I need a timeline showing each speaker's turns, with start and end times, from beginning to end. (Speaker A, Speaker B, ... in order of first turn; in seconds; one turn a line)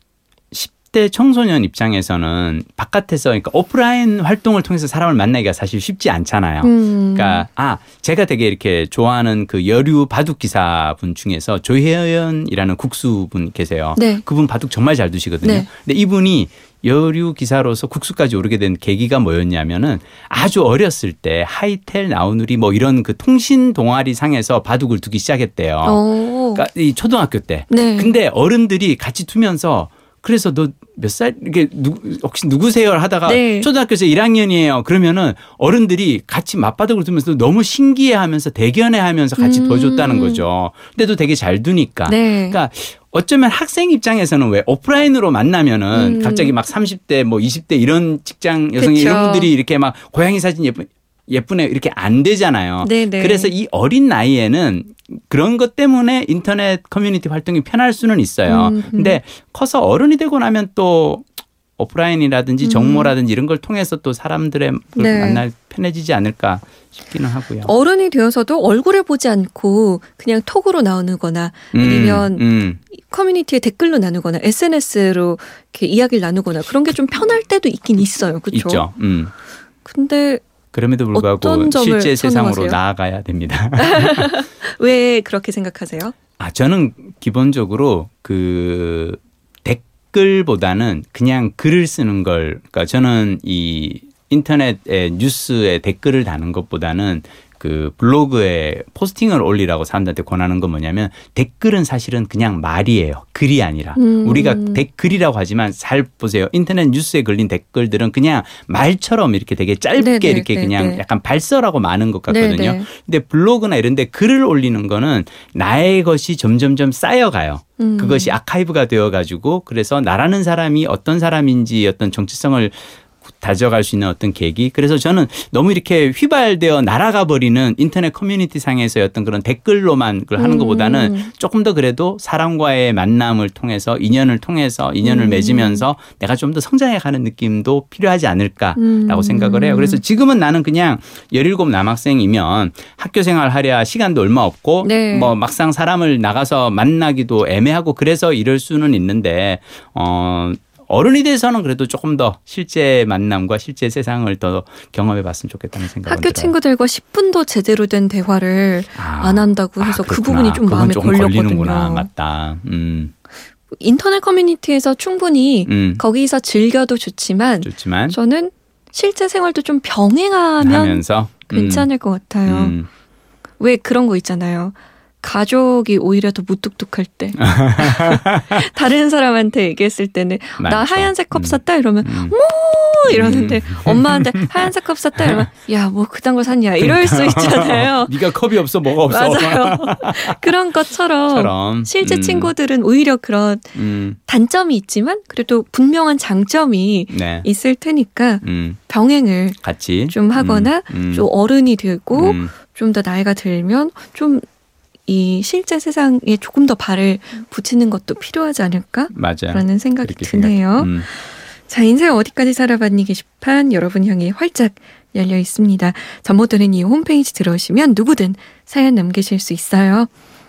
Speaker A: 0.5-61.3
Speaker B: 6.6-7.5
Speaker B: 14.0-14.2
Speaker B: 15.4-15.7
Speaker B: 25.8-26.7
Speaker B: 27.7-28.2
Speaker B: 33.3-33.7
Speaker B: 39.4-40.5
Speaker B: 42.1-42.6
Speaker B: 45.9-46.5
Speaker B: 48.8-49.5
Speaker B: 52.8-53.5
Speaker B: 58.5-59.2
Speaker A: 61.8-67.7
Speaker B: 62.6-63.1
Speaker B: 65.0-65.4
Speaker B: 67.6-78.8
Speaker A: 71.7-72.8
Speaker A: 78.5-79.3
Speaker B: 79.8-80.4
Speaker A: 80.7-84.3
Speaker B: 81.1-82.8
Speaker B: 83.8-86.2
Speaker A: 86.4-122.8
Speaker B: 104.0-104.8
Speaker B: 110.0-111.0
Speaker B: 112.3-112.9
Speaker B: 117.8-118.4
Speaker A: 123.4-156.5
Speaker B: 130.4-131.3
Speaker B: 135.0-135.9
Speaker B: 138.8-140.0
Speaker B: 144.8-145.3
Speaker B: 156.1-162.1
Speaker A: 159.0-163.1
Speaker B: 163.8-172.8
Speaker A: 165.7-166.0
Speaker A: 167.6-168.2
Speaker A: 170.6-171.9
Speaker A: 172.5-172.9
Speaker B: 173.6-188.2
Speaker A: 177.4-178.5
Speaker A: 180.6-182.4
Speaker A: 183.1-184.7
Speaker A: 185.2-185.5
Speaker A: 186.8-190.5
Speaker B: 189.0-204.4
Speaker A: 191.3-192.5
Speaker A: 193.8-194.2
Speaker A: 197.1-197.5
Speaker A: 198.4-198.8
Speaker A: 199.6-201.3
Speaker A: 202.1-202.5
Speaker B: 205.1-220.1
Speaker A: 209.1-211.1